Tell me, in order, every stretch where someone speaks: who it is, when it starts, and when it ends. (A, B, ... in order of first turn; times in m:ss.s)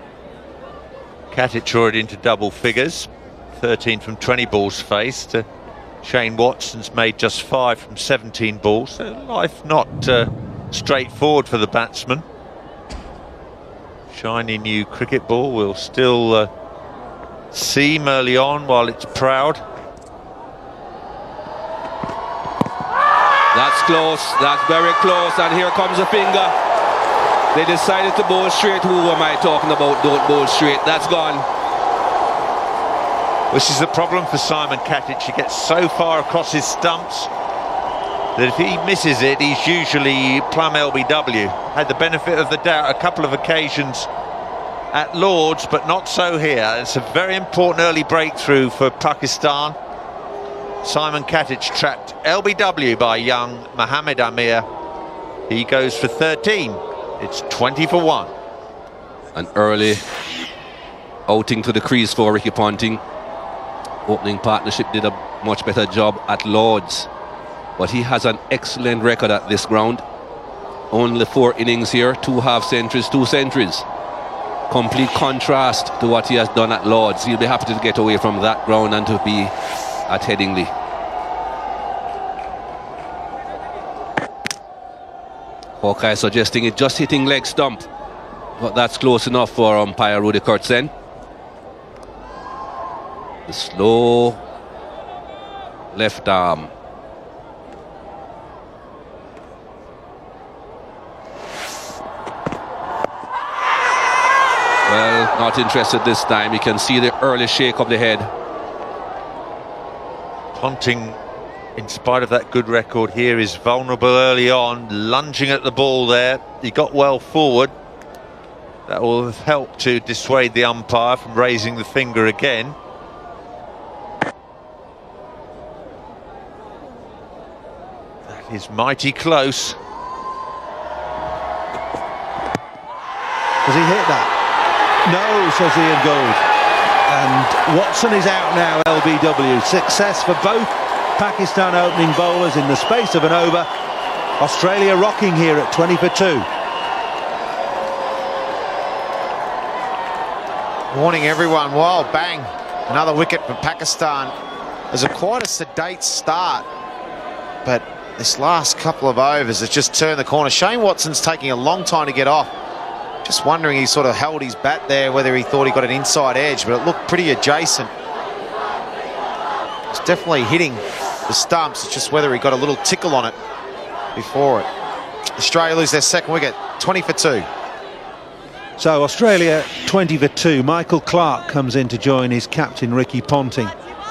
0:01.3-0:05.5 A
0:06.0-0:12.2 A
0:14.1-0:16.5 A
0:17.5-0:19.6 A
0:23.5-0:26.6 B
0:27.5-0:31.5 B
0:33.5-0:37.3 A
0:38.4-0:44.1 A
0:44.9-0:49.8 A
0:50.8-0:54.7 A
0:55.5-0:58.3 A
0:59.4-1:00.0 B
1:01.3-1:03.0 B
1:04.1-1:07.1 B
1:07.8-1:10.0 B
1:10.9-1:13.9 B
1:14.7-1:19.5 B
1:20.1-1:20.7 B
1:25.8-1:27.9 B
1:28.6-1:30.9 B
1:33.5-1:34.4 B
1:35.9-1:36.7 B
1:44.8-1:48.3 B
1:50.6-1:51.2 A
1:51.8-1:57.7 A
1:58.9-2:02.8 A
2:08.3-2:09.8 A
2:13.6-2:14.3 C
2:15.0-2:16.4 C
2:17.1-2:23.7 C
2:24.4-2:26.5 C
2:30.9-2:34.3 D
2:34.9-2:36.7 D
2:37.6-2:42.5 D
2:43.2-2:47.9 D
2:49.9-2:53.4 D
2:54.2-2:54.7 D
2:55.4-2:57.5 D
2:58.8-3:03.8 C